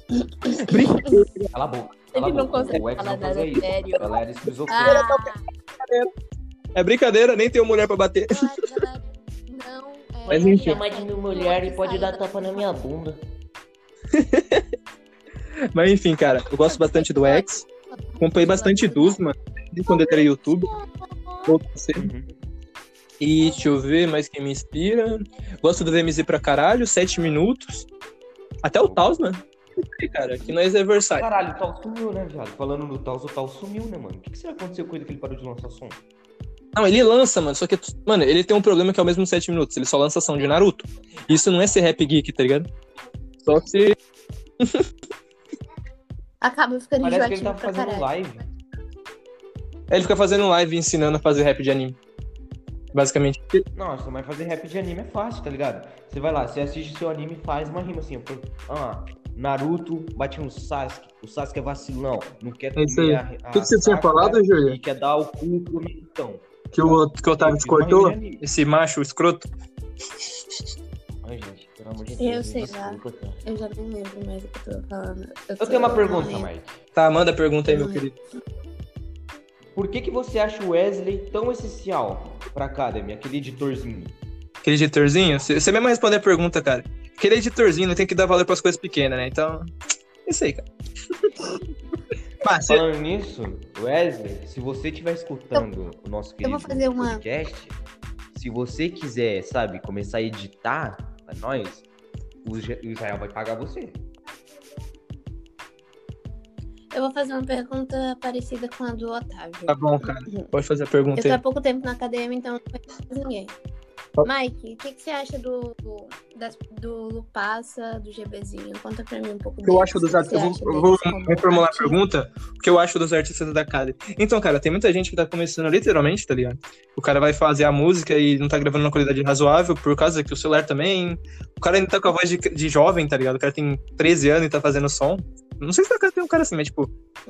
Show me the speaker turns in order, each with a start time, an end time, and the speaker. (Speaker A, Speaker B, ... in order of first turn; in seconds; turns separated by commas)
Speaker A: 0.1-1.2, Speaker B: 0.7-1.5, Speaker C: 1.5-5.0, Speaker A: 2.1-5.5, Speaker B: 4.8-6.1, Speaker B: 6.7-8.7, Speaker A: 8.3-12.8, Speaker C: 10.3-13.2, Speaker B: 10.3-10.8, Speaker B: 14.1-14.7, Speaker B: 15.7-17.6, Speaker A: 16.6-19.2, Speaker B: 18.2-20.7, Speaker A: 19.9-21.5, Speaker B: 21.4-22.1, Speaker C: 21.9-22.3, Speaker B: 23.2-27.9, Speaker B: 28.6-29.4, Speaker C: 28.8-29.1, Speaker B: 29.9-31.3, Speaker C: 31.1-36.0, Speaker B: 36.7-42.7, Speaker B: 43.4-44.0, Speaker B: 44.6-44.9, Speaker A: 46.4-48.1, Speaker C: 47.0-48.4, Speaker B: 49.9-52.0, Speaker B: 52.9-53.6, Speaker C: 53.7-68.4, Speaker B: 62.8-64.8, Speaker B: 66.7-69.5, Speaker C: 71.2-73.4, Speaker A: 72.2-76.5, Speaker C: 75.6-76.8, Speaker B: 77.0-78.2, Speaker A: 77.7-78.0, Speaker C: 79.8-84.2, Speaker B: 84.6-89.7, Speaker B: 90.2-90.7, Speaker B: 91.2-91.5, Speaker B: 92.4-92.8, Speaker C: 92.7-97.8, Speaker A: 96.4-97.2, Speaker C: 98.3-101.8, Speaker C: 102.4-104.0, Speaker A: 106.9-110.5, Speaker B: 109.7-111.4, Speaker A: 111.1-113.5, Speaker A: 114.2-122.0, Speaker B: 119.6-136.9